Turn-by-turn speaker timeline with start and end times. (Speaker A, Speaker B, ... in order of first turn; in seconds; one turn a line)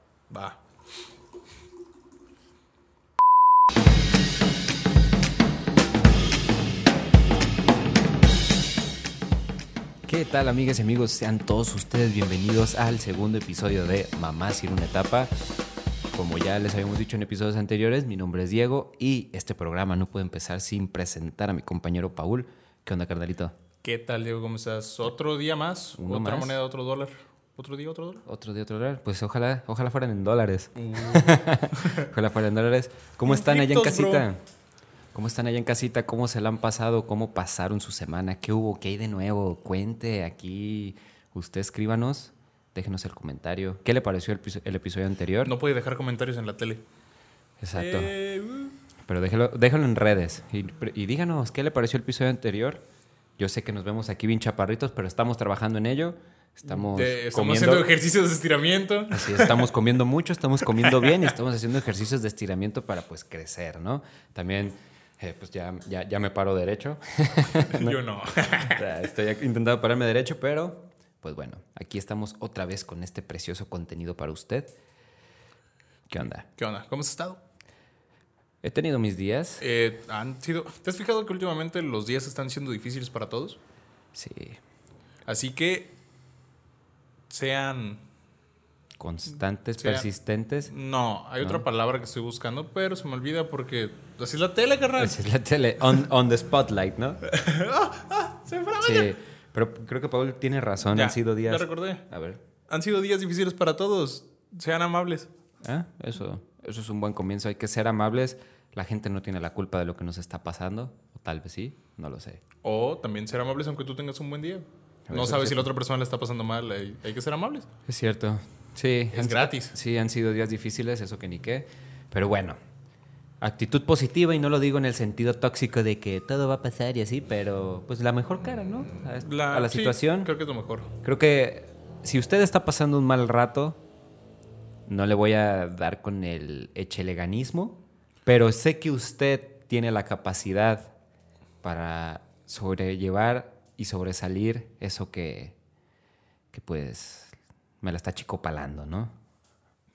Speaker A: 0.3-0.6
Speaker B: 10.1-15.3
Speaker B: 16.1-23.5
Speaker A: 23.8-28.2
Speaker B: 26.0-26.6
Speaker B: 28.3-34.4
Speaker A: 30.8-32.1
Speaker A: 33.3-34.3
Speaker B: 35.1-45.5
Speaker A: 45.4-46.8
Speaker B: 47.6-48.1
Speaker A: 47.8-48.7
Speaker B: 49.1-52.9
Speaker B: 53.4-57.9
Speaker A: 56.7-59.7
Speaker B: 59.1-68.0
Speaker A: 60.7-61.3
Speaker A: 67.6-68.8
Speaker B: 68.6-74.7
Speaker B: 76.1-76.5
Speaker A: 76.6-77.4
Speaker B: 78.6-79.6
Speaker A: 79.6-83.6
Speaker B: 84.1-84.6
Speaker A: 85.3-85.9
Speaker A: 87.3-88.0
Speaker B: 89.0-90.7
Speaker A: 89.8-90.1
Speaker A: 90.7-95.2
Speaker B: 95.0-97.2
Speaker A: 97.2-99.2
Speaker B: 98.8-102.4
Speaker A: 100.9-102.0
Speaker A: 102.7-105.3
Speaker B: 105.6-112.4
Speaker A: 112.6-117.7
Speaker B: 115.1-115.7
Speaker B: 117.9-122.6
Speaker A: 119.1-119.8
Speaker B: 123.4-130.3
Speaker A: 129.1-130.9
Speaker B: 131.0-133.8
Speaker B: 134.9-140.9
Speaker B: 141.6-145.6
Speaker B: 146.5-149.1